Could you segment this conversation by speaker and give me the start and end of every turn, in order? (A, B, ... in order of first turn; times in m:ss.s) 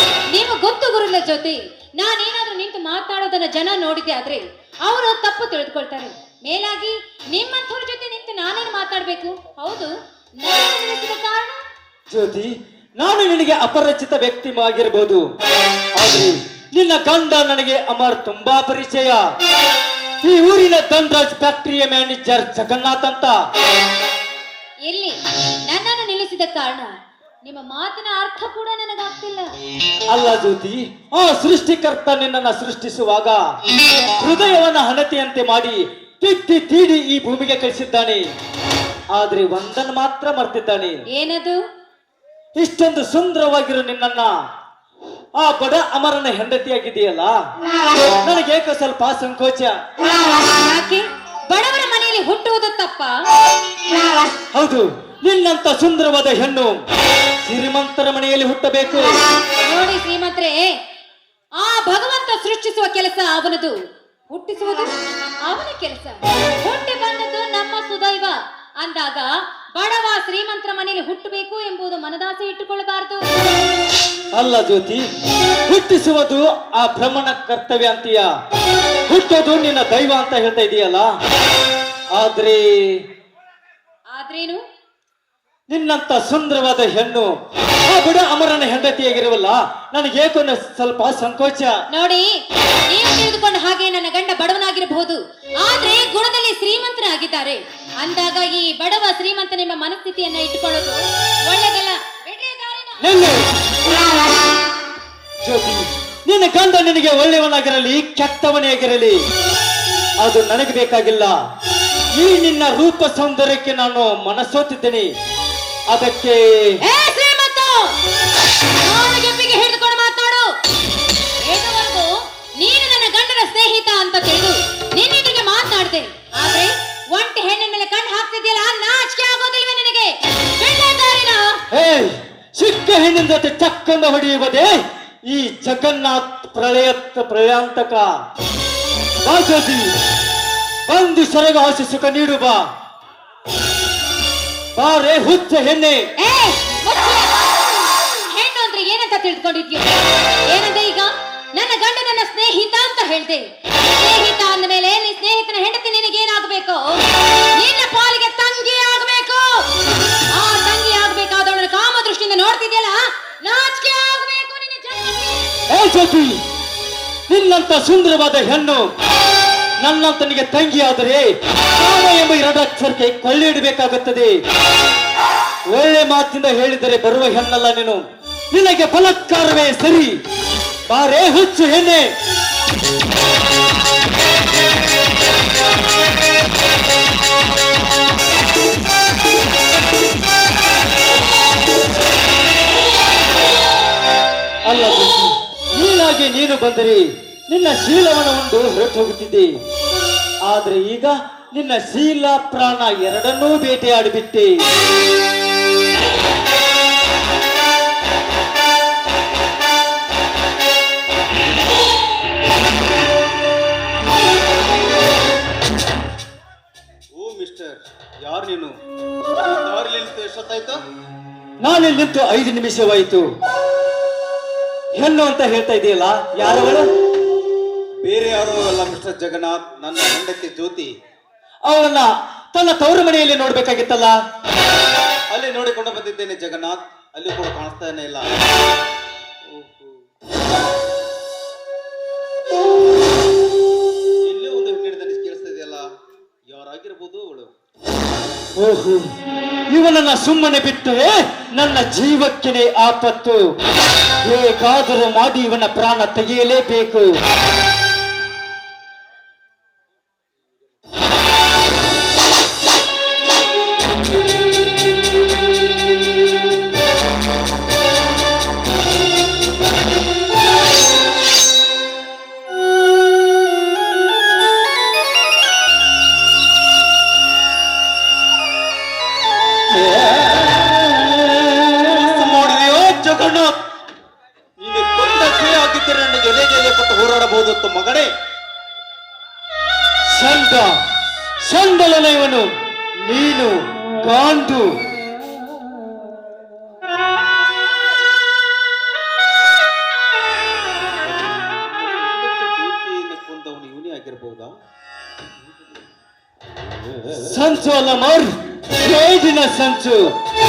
0:00.3-0:09.9 A
0:10.4-0:11.6 A
0:12.1-0:15.2 B
0:16.0-0:19.2 B
0:20.2-0:23.4 B
0:24.9-0:26.9 A
0:27.4-0:29.5 A
0:30.1-0:33.4 B
0:34.2-0:38.2 B
0:39.1-0:41.0 B
0:41.1-0:41.6 A
0:42.6-0:44.3 B
0:45.4-0:47.3 B
0:48.2-0:49.8 B
0:50.4-0:53.1 A
0:54.5-0:56.8 B
0:57.4-0:59.2 B
0:59.6-1:00.7 A
1:01.6-1:03.8 A
1:04.3-1:13.2 A
1:14.3-1:15.1 B
1:15.6-1:18.2 B
1:19.1-1:21.1 B
1:22.2-1:23.0 B
1:24.1-1:24.6 A
1:25.7-1:27.3 B
1:27.8-1:31.8 B
1:31.9-1:32.3 A
1:32.8-1:43.2 A
1:43.0-1:43.4 B
1:45.4-1:49.2 B
1:50.2-1:51.3 B
1:52.2-1:55.1 B
1:55.9-1:56.8 B
1:56.8-1:58.0 A
1:58.8-2:00.5 A
2:01.4-2:11.6 A
2:11.7-2:18.1 B
2:19.2-2:20.0 B
2:20.8-2:22.6 B
2:24.8-2:26.1 B
2:26.2-2:29.9 A
2:30.5-2:39.7 A
2:40.3-2:45.4 A
2:45.7-2:46.4 B
2:47.3-2:48.9 B
2:49.8-2:54.4 B
2:55.7-3:00.2 B
3:00.9-3:02.1 B
3:14.7-3:19.5 B
3:20.5-3:24.6 B
3:37.1-3:38.7 C
3:39.5-3:40.8 C
3:41.6-3:43.3 B
3:45.0-3:46.9 B
3:48.0-3:50.9 C
3:51.7-3:54.2 B
3:55.3-3:58.3 C
3:59.5-4:00.0 C
4:04.2-4:05.8 C
4:06.5-4:07.5 C
4:08.6-4:09.1 B
4:09.7-4:13.5 B
4:14.2-4:17.1 B
4:41.4-4:41.9 B
4:41.9-4:43.5 C
4:44.6-4:48.1 C
4:50.1-4:50.8 B
4:51.4-4:54.8 B
5:00.9-5:04.5 C
5:07.1-5:10.1 B